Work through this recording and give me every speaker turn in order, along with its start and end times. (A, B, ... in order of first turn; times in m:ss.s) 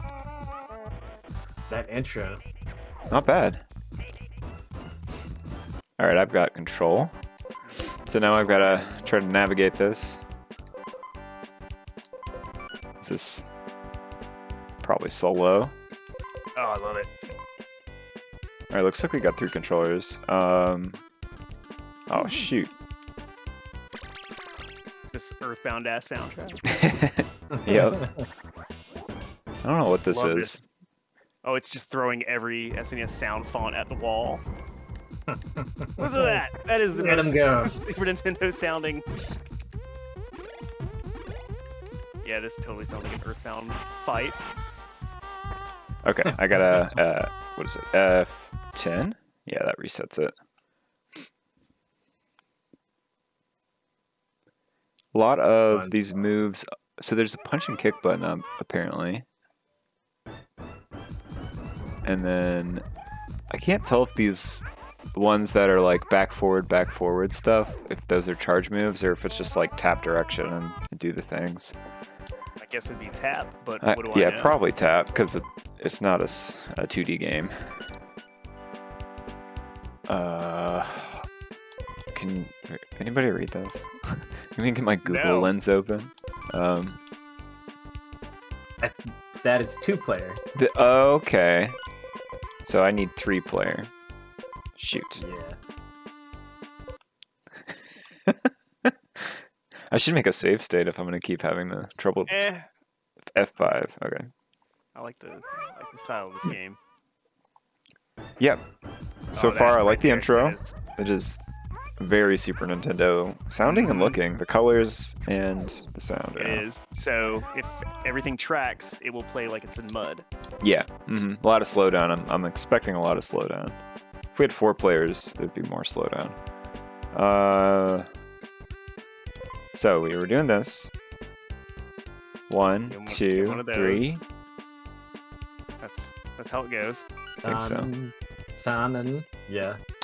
0:01.7-0:02.4 A
0:03.1-0:03.6 B
0:06.0-0:07.1 B
0:08.1-0:10.2 B
0:13.0-0:13.5 B
0:14.8-0:15.7 B
0:16.6-0:17.1 C
0:18.7-0:21.0 B
0:22.1-0:22.7 B
0:25.1-0:26.7 C
0:26.7-0:28.0 B
0:27.5-0:28.3 A
0:29.6-0:30.6 B
0:30.1-0:30.6 C
0:31.4-0:34.4 C
0:35.3-0:36.4 A
0:36.0-0:39.1 C
0:36.9-0:37.8 A
0:42.2-0:44.4 C
0:46.0-0:50.3 B
0:55.1-0:59.3 B
1:02.0-1:02.8 B
1:03.5-1:11.8 B
1:12.6-1:14.6 C
1:13.8-1:17.7 B
1:20.1-1:21.3 B
1:22.1-1:27.0 B
1:25.0-1:25.5 C
1:28.8-1:30.4 A
1:30.6-1:31.8 B
1:32.6-1:33.9 B
1:34.8-1:35.2 B
1:35.2-1:35.6 A
1:38.3-1:42.3 B
1:42.3-1:42.7 C
1:43.3-1:44.3 B
1:45.0-1:46.8 C
1:49.3-1:51.4 B
1:49.4-1:50.8 C
1:52.0-1:56.6 B
1:53.7-1:54.1 C
1:56.4-2:00.2 C
2:00.6-2:03.8 B
2:04.3-2:06.4 B
2:07.1-2:08.1 B
2:09.7-2:10.9 B
2:12.5-2:14.2 B
2:12.9-2:14.2 C
2:15.8-2:17.0 C
2:17.4-2:17.9 B
2:17.4-2:19.8 A